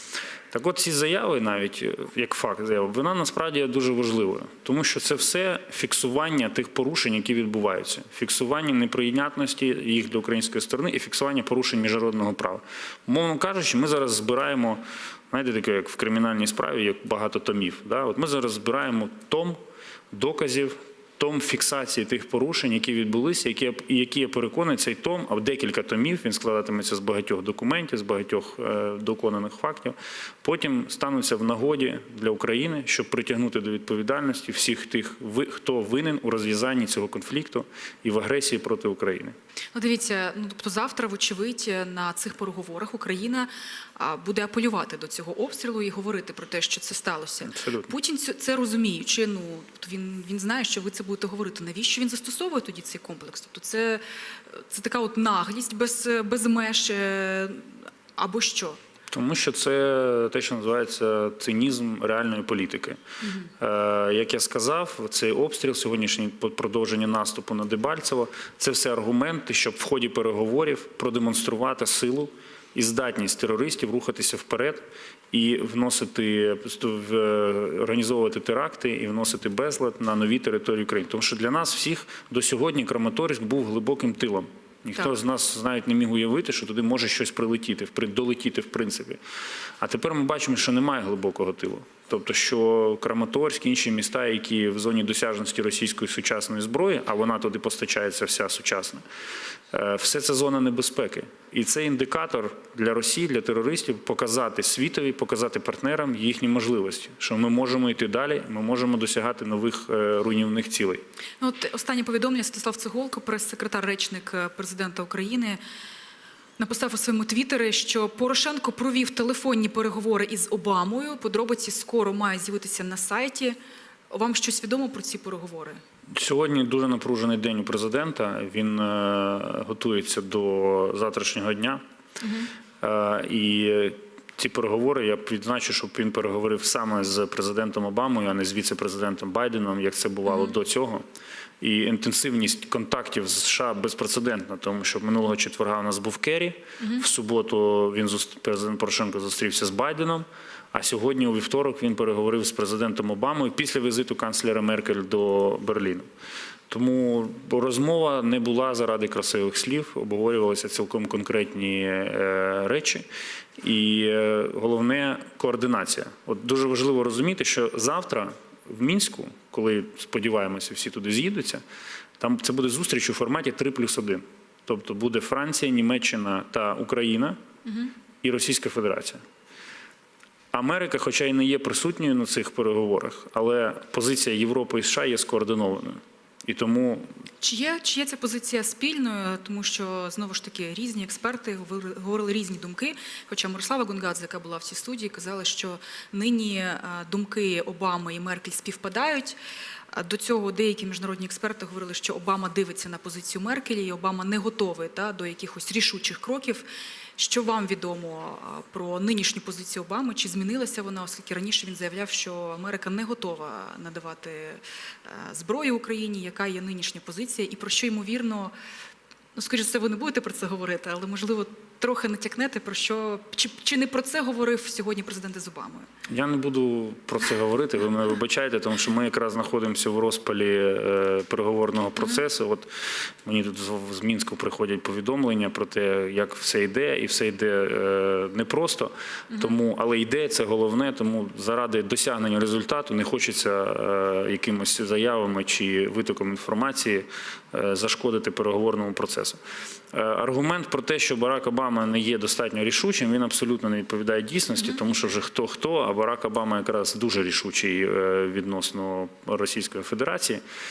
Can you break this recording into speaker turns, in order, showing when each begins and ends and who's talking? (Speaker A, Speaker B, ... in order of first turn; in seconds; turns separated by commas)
Speaker A: 0.5-19.6, Speaker A: 20.1-39.3, Speaker B: 39.7-58.8, Speaker A: 47.5-47.9, Speaker A: 59.1-63.0, Speaker A: 63.6-89.2, Speaker A: 89.8-99.0, Speaker A: 99.7-111.0, Speaker B: 111.4-115.6, Speaker B: 116.6-123.6, Speaker B: 124.1-125.8, Speaker A: 126.1-131.8, Speaker B: 132.2-132.5, Speaker A: 132.8-141.0, Speaker A: 141.6-156.1, Speaker A: 156.7-163.1, Speaker A: 163.6-171.6, Speaker A: 172.2-177.4, Speaker B: 177.7-177.9, Speaker A: 178.2-179.2, Speaker A: 180.5-187.1, Speaker B: 187.4-199.4, Speaker B: 199.9-206.7, Speaker B: 207.2-218.5, Speaker B: 219.3-225.9, Speaker A: 226.1-232.7, Speaker A: 233.2-249.4, Speaker A: 249.9-260.4